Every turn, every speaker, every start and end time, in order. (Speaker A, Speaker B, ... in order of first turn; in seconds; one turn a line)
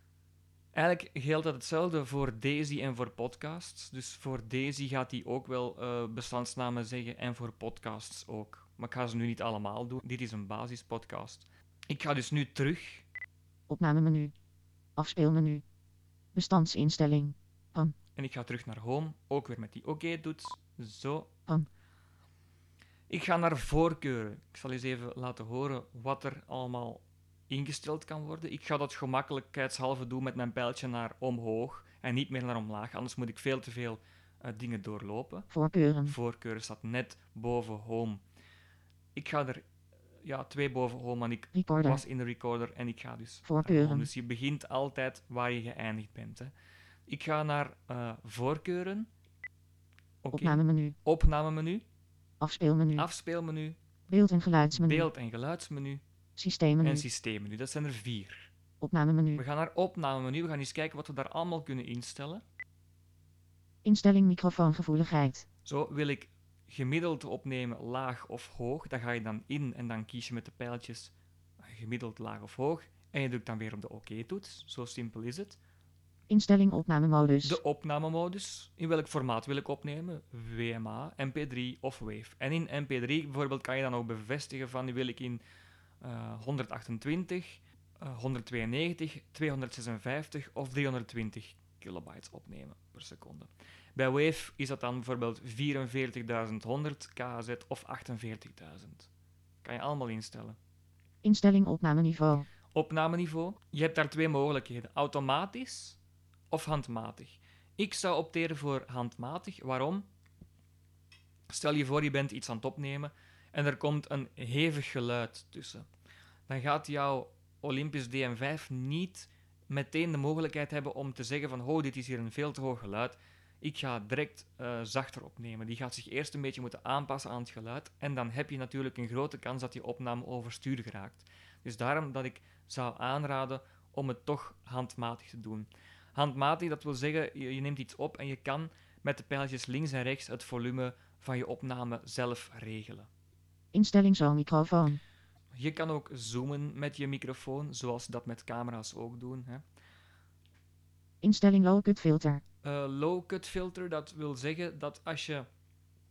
Speaker A: 0.7-13.0
Speaker B: 13.7-14.3
Speaker B: 14.9-15.6
Speaker B: 16.3-17.9
Speaker A: 18.1-21.3
Speaker A: 23.1-35.5
Speaker B: 35.5-36.1
Speaker A: 36.0-38.2
Speaker A: 39.1-39.6
Speaker A: 40.2-46.5
Speaker B: 41.5-42.0
Speaker B: 43.4-44.1
Speaker A: 47.1-49.1
Speaker A: 50.2-51.8
Speaker B: 50.3-50.9
Speaker B: 52.4-53.1
Speaker A: 53.0-53.8
Speaker B: 54.1-55.1
Speaker A: 54.8-56.0
Speaker B: 56.4-57.0
Speaker A: 56.8-58.5
Speaker B: 58.8-59.4
Speaker A: 59.4-62.4
Speaker B: 63.8-65.5
Speaker A: 65.6-75.6
Speaker B: 76.3-77.6
Speaker A: 77.4-85.4
Speaker A: 86.0-99.1
Speaker A: 99.6-100.6
Speaker B: 101.2-102.5
Speaker A: 102.7-106.0
Speaker A: 106.5-110.0
Speaker A: 111.5-115.9
Speaker A: 116.5-143.1
Speaker B: 143.7-145.0
Speaker A: 145.5-149.6
Speaker B: 151.2-152.4
Speaker A: 152.6-155.5